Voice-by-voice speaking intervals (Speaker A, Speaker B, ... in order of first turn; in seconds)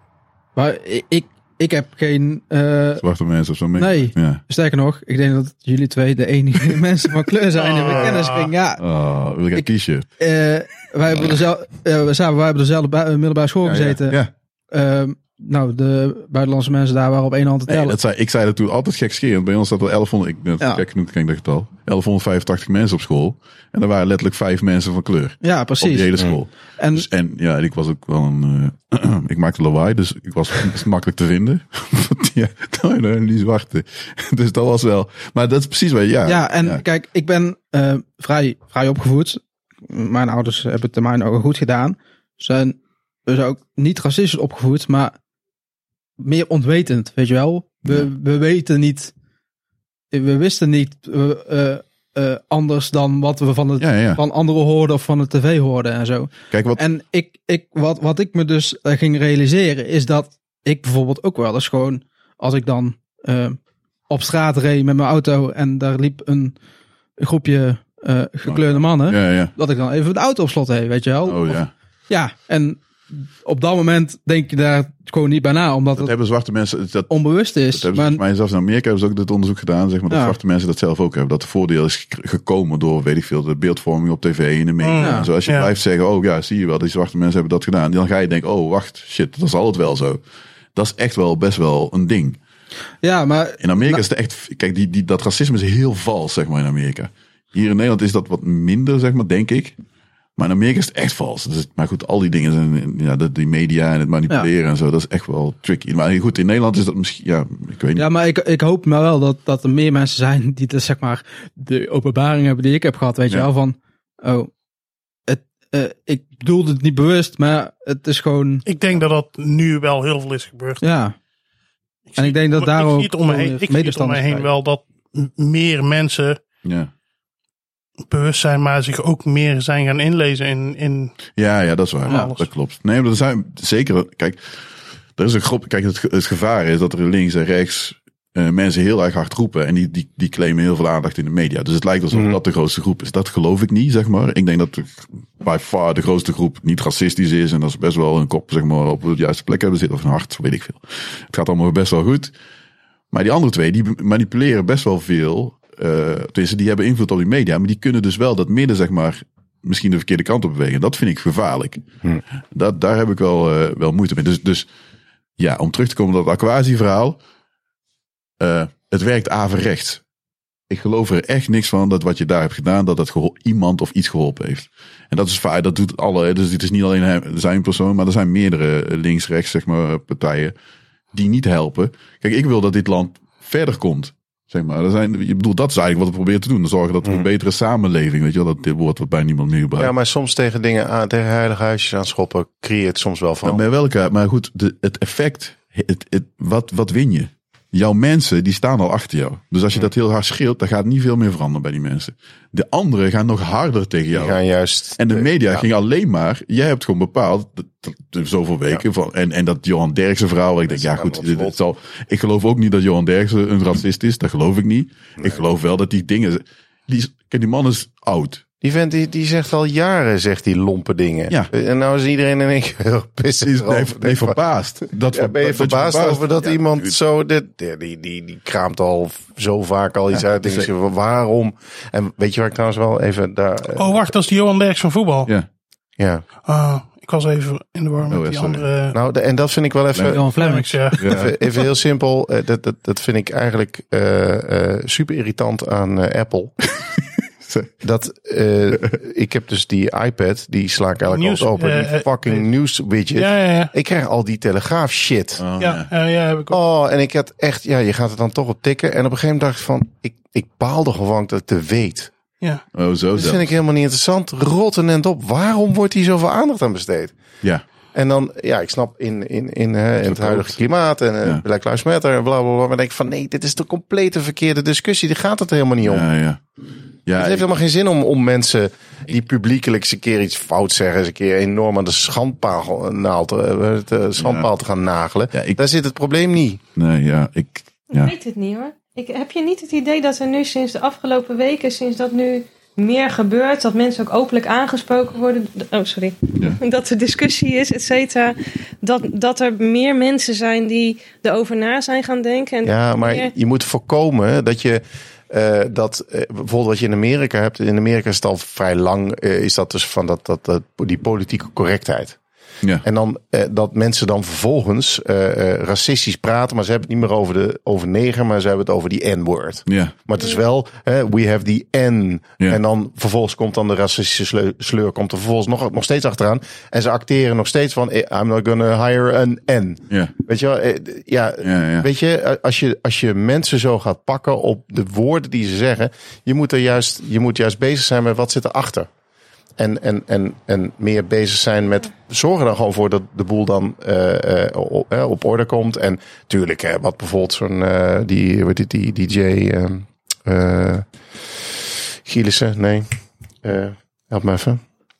Speaker A: 0.6-3.0, 3.8-8.8, 10.2-18.0, 25.4-27.1, 36.2-45.1, 46.2-49.1, 50.1-63.6, 64.1-66.5, 67.2-76.1, 77.1-78.2, 80.1-80.4, 85.0-85.3, 93.0-94.0, 108.0-114.5, 115.3-118.7, 120.8-121.1, 122.2-124.5, 240.1-241.2
Speaker B: 3.0-4.4, 8.8-10.1, 13.6-14.3, 17.7-36.8, 53.8-54.2, 56.5-56.8, 68.5-69.5, 71.3-71.7, 76.0-77.1, 77.7-90.2, 90.7-92.4, 93.6-99.8, 100.4-108.0, 126.6-126.9, 131.3-134.4, 135.2-152.3, 153.1-161.8, 162.5-164.7, 165.4-167.2, 168.4-170.0, 170.7-180.5, 181.1-189.9, 193.4-204.4, 205.0-218.4, 223.4-226.9, 230.2-230.7, 238.1-238.7, 239.9-240.2, 241.0-241.3, 247.4-247.7, 255.4-255.9, 262.7-263.5, 270.0-270.6, 275.8-276.4, 277.1-277.4, 284.2-284.5, 285.3-285.6, 286.8-288.1, 319.7-319.9, 331.4-331.9
Speaker C: 7.5-8.5, 84.8-85.7, 118.6-120.8, 122.1-126.4, 128.1-131.1, 132.1-132.4, 233.7-235.3, 236.4-239.0, 240.3-241.1, 251.1-252.4, 253.2-253.7, 255.6-256.6
Speaker D: 142.1-142.4, 189.8-193.6, 204.1-205.7, 210.7-211.5, 218.6-224.4, 225.1-234.0, 236.0-236.2, 238.9-240.2, 241.0-246.5, 247.8-255.4, 256.5-262.1, 263.1-267.1, 267.9-276.1, 277.1-286.6, 302.6-312.2, 312.8-338.9, 339.6-350.8, 351.6-352.9, 353.4-354.6
Speaker E: 287.9-303.3